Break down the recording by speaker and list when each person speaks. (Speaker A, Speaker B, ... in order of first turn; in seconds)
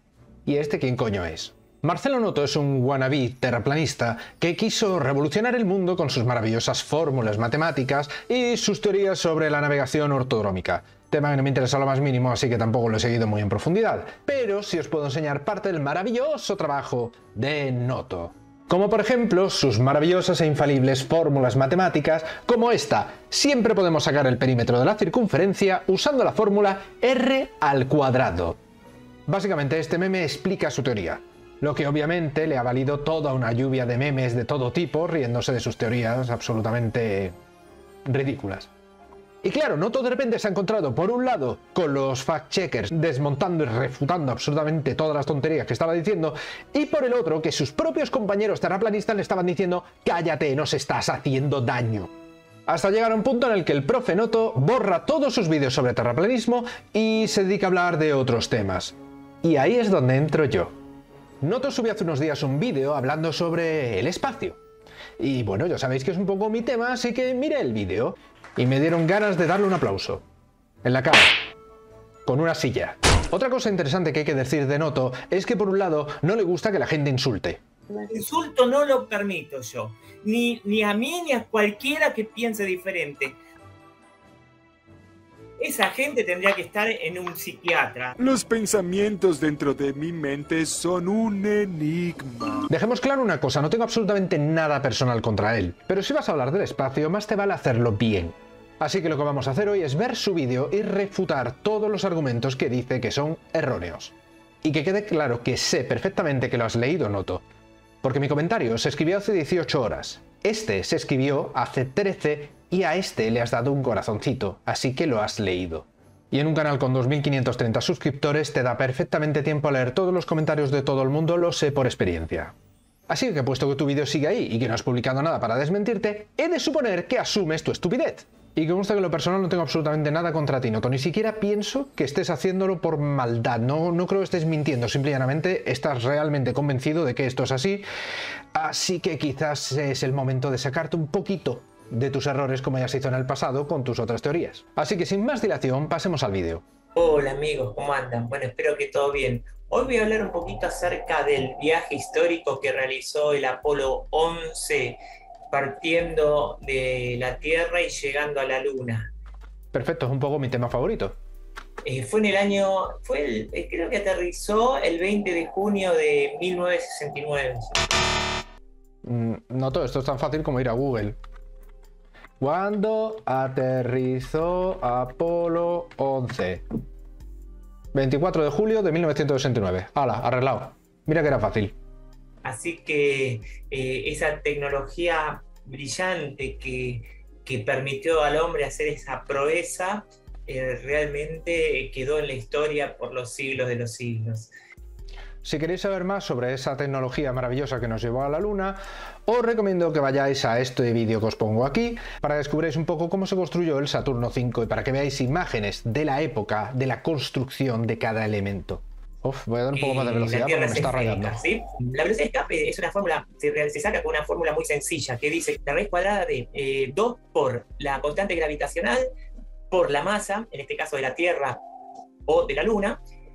Speaker A: 0.5-28.6, 29.3-37.3, 38.0-38.7, 39.4-52.1, 52.7-60.7, 61.4-64.6, 65.2-70.2, 70.8-71.3, 72.2-77.6, 92.7-107.4, 108.0-122.5, 123.1-137.9, 138.5-146.6, 159.7-161.2, 169.0-171.2, 172.4-176.6, 177.9-181.7, 195.4-211.4
Speaker B: 77.9-83.4, 85.6-88.2, 146.9-155.0, 155.5-159.1, 161.8-167.8, 182.4-194.5, 209.7-219.1, 219.7-221.6, 222.2-223.0
Speaker C: 88.2-92.7